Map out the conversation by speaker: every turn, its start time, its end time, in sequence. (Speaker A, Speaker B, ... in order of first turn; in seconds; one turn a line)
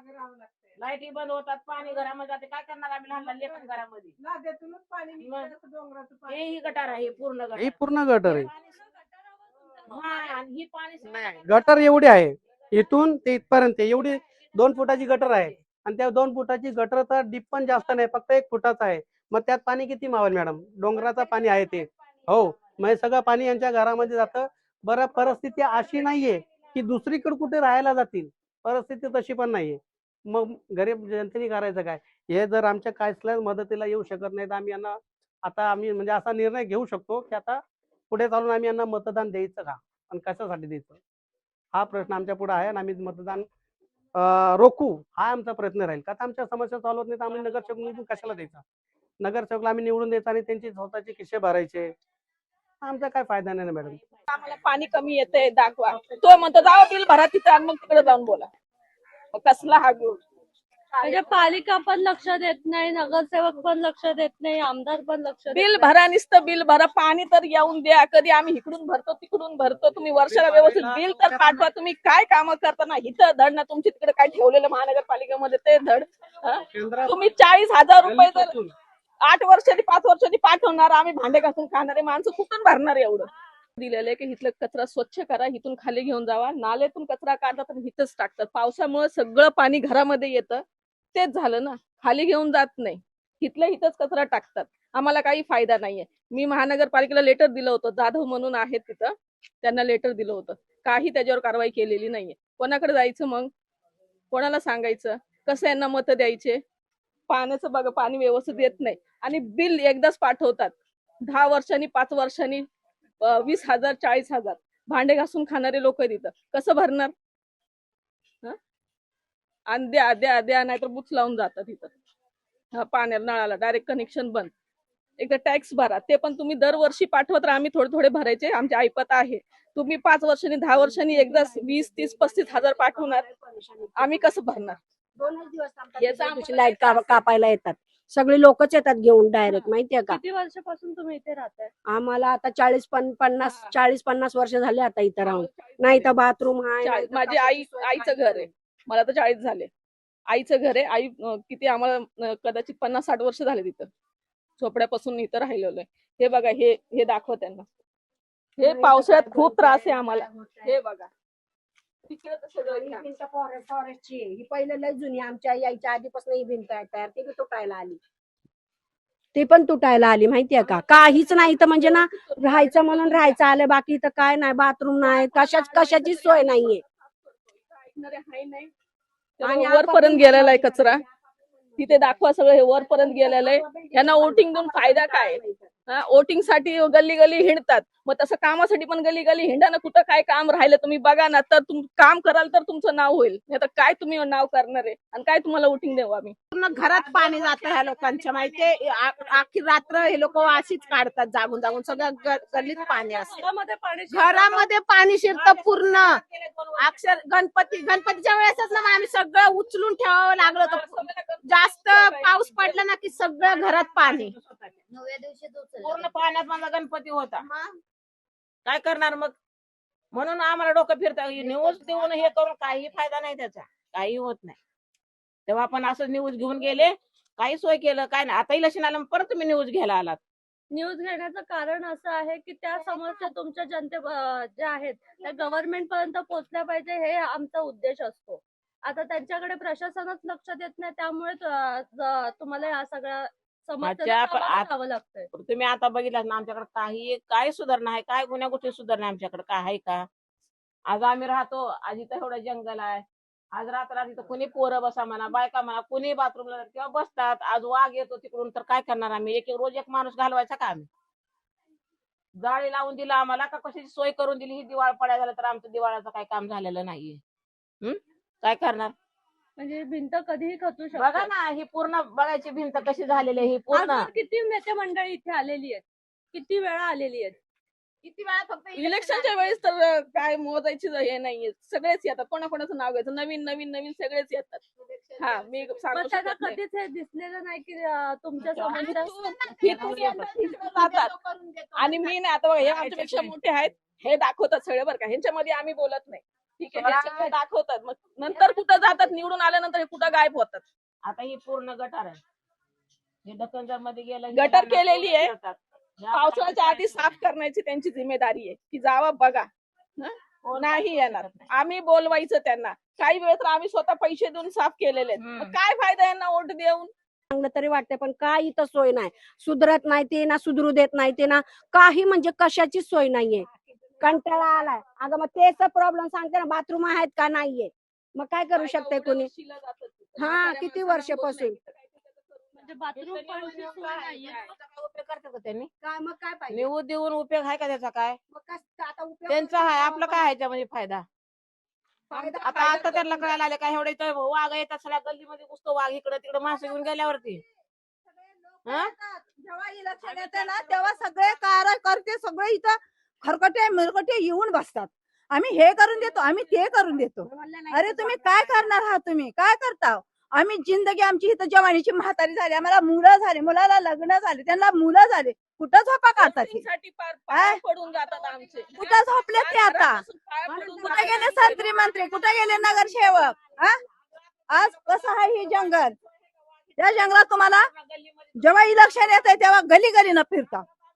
Speaker A: 0.8-4.1
Speaker A: 5.2-5.6
Speaker A: 6.3-8.5
Speaker B: 7.6-8.5
Speaker C: 8.9-10.3
Speaker A: 9.9-11.2
Speaker B: 11.0-41.0
Speaker B: 41.7-43.5
Speaker B: 44.1-48.6
Speaker B: 49.2-51.9
Speaker B: 52.8-54.0
Speaker D: 54.3-58.5
Speaker D: 59.3-60.2
Speaker D: 60.9-61.5
Speaker C: 61.0-65.9
Speaker D: 65.5-78.5
Speaker B: 70.3-71.6
Speaker B: 76.7-77.2
Speaker B: 78.0-78.7
Speaker D: 79.2-90.6
Speaker D: 91.2-103.5
Speaker D: 104.3-106.6
Speaker D: 107.3-110.7
Speaker D: 111.3-112.6
Speaker D: 113.2-117.1
Speaker D: 119.7-121.9
Speaker D: 122.7-124.5
Speaker D: 125.2-133.3
Speaker E: 130.7-134.2
Speaker D: 134.0-134.8
Speaker E: 135.2-140.2
Speaker D: 136.0-137.2
Speaker C: 139.5-141.7
Speaker E: 141.9-148.5
Speaker D: 143.4-143.7
Speaker D: 145.2-146.1
Speaker D: 146.8-149.7
Speaker D: 150.3-153.9
Speaker D: 154.6-157.7
Speaker D: 158.6-161.1
Speaker E: 158.6-160.8
Speaker D: 162.1-163.1
Speaker E: 162.6-168.0
Speaker E: 169.3-176.8
Speaker D: 170.7-173.4
Speaker D: 175.0-178.7
Speaker D: 179.4-181.0
Speaker E: 179.4-181.1
Speaker E: 181.7-182.2
Speaker D: 181.8-196.3
Speaker E: 182.8-185.7
Speaker F: 196.5-203.4
Speaker A: 196.8-199.4
Speaker A: 200.2-200.9
Speaker C: 202.6-204.7
Speaker F: 204.1-206.2
Speaker A: 205.3-206.9
Speaker F: 206.8-214.4
Speaker D: 210.4-212.8
Speaker A: 213.5-214.7
Speaker A: 215.8-217.4
Speaker A: 218.7-219.3
Speaker A: 220.1-224.6
Speaker A: 225.5-230.2
Speaker C: 230.7-245.3
Speaker A: 243.8-244.7
Speaker A: 245.3-250.1
Speaker A: 250.9-253.0
Speaker A: 253.6-260.9
Speaker A: 262.4-267.2
Speaker A: 267.8-268.9
Speaker C: 269.6-271.3
Speaker A: 271.0-274.1
Speaker C: 273.7-277.4
Speaker F: 278.0-279.6
Speaker D: 278.8-284.6
Speaker F: 284.8-285.8
Speaker D: 285.2-286.6
Speaker C: 285.9-289.2
Speaker A: 288.4-288.8
Speaker D: 288.8-291.1
Speaker F: 288.8-292.1
Speaker A: 289.7-290.3
Speaker D: 291.8-300.6
Speaker A: 292.6-293.3
Speaker A: 296.8-297.3
Speaker A: 301.1-302.2
Speaker A: 303.2-307.1
Speaker D: 304.3-305.3
Speaker D: 306.1-316.9
Speaker A: 310.5-311.5
Speaker A: 315.2-315.5
Speaker E: 317.3-323.5
Speaker E: 324.0-329.3
Speaker D: 328.5-332.7
Speaker E: 330.2-331.6
Speaker C: 332.6-334.5
Speaker A: 333.0-335.7
Speaker D: 334.2-334.5
Speaker E: 335.8-336.7
Speaker A: 336.5-338.2
Speaker E: 338.3-340.2
Speaker A: 339.3-341.1
Speaker D: 342.1-343.4
Speaker E: 342.1-342.9
Speaker A: 342.4-347.4
Speaker G: 348.6-366.6
Speaker A: 348.7-348.9
Speaker E: 356.0-358.7
Speaker D: 366.2-372.1
Speaker G: 367.3-367.6
Speaker G: 368.8-370.0
Speaker E: 370.5-371.1
Speaker G: 370.8-373.8
Speaker E: 372.1-373.2
Speaker G: 374.5-376.0
Speaker A: 374.6-375.6
Speaker G: 376.8-377.7
Speaker A: 376.8-379.1
Speaker G: 378.4-380.6